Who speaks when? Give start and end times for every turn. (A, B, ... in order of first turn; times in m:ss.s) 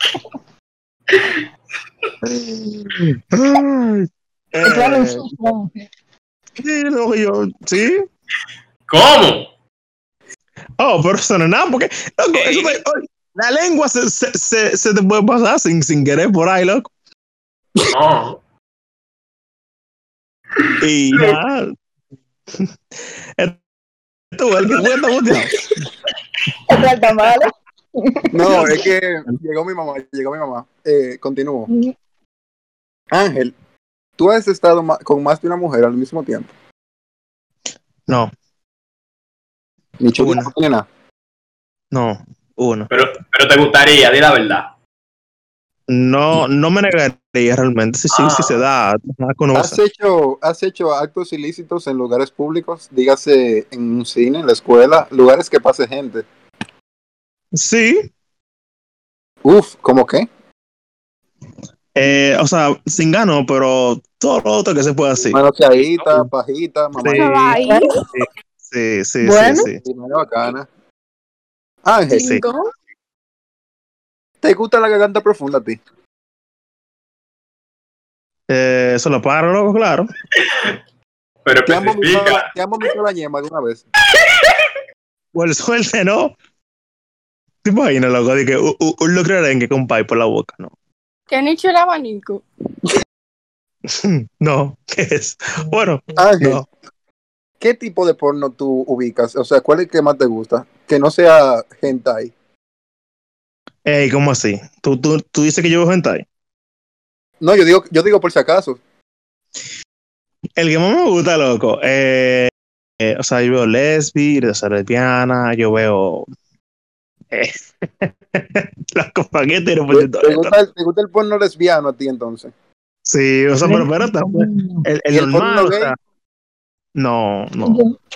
0:02.3-0:05.3 A
0:04.6-0:05.9 B
0:06.6-0:08.1 A
0:08.9-0:09.5 C
0:10.8-0:16.9 A
0:17.9-0:18.4 C
0:20.8-0:21.8 A
0:24.4-0:25.7 A
0:26.7-0:27.5 B
0:28.0-0:28.8 B
0:28.3-0:31.7 D
0:31.7-0:32.0 B
0:33.1-0:33.5 D
0:34.2-0:36.5 D
0:40.0-0:40.8 D
0:40.2-0:40.5 A
0:41.9-0:42.9 A
0:42.9-0:44.7 C
0:45.9-0:49.8 A
0:48.1-0:48.6 C
0:49.5-0:56.3 D
0:57.6-0:58.0 A
0:59.4-1:00.2 D
1:02.0-1:05.4 A
1:05.2-1:07.6 D
1:07.0-1:07.4 A
1:07.1-1:08.0 E
1:07.6-1:07.9 B
1:08.1-1:09.8 A
1:09.2-1:09.7 B
1:09.7-1:10.7 D
1:11.8-1:12.3 D
1:12.1-1:12.7 E
1:12.1-1:12.4 A
1:14.4-1:15.8 D
1:18.5-1:20.1 A
1:20.4-1:20.7 C
1:21.4-1:22.5 C
1:21.7-1:23.8 D
1:24.1-1:24.6 C
1:25.4-1:26.3 A
1:27.6-1:30.7 A
1:31.3-1:32.4 E
1:33.9-1:36.7 A
1:36.2-1:36.6 D
1:37.6-1:42.3 D
1:43.9-1:46.2 A
1:47.4-1:48.8 D
1:50.6-1:52.5 A
1:53.0-1:56.3 A
1:57.3-2:00.6 A
1:59.9-2:02.5 D
2:03.1-2:06.0 A
2:03.6-2:04.8 B
2:05.1-2:05.9 D
2:07.0-2:07.8 A
2:07.6-2:07.9 B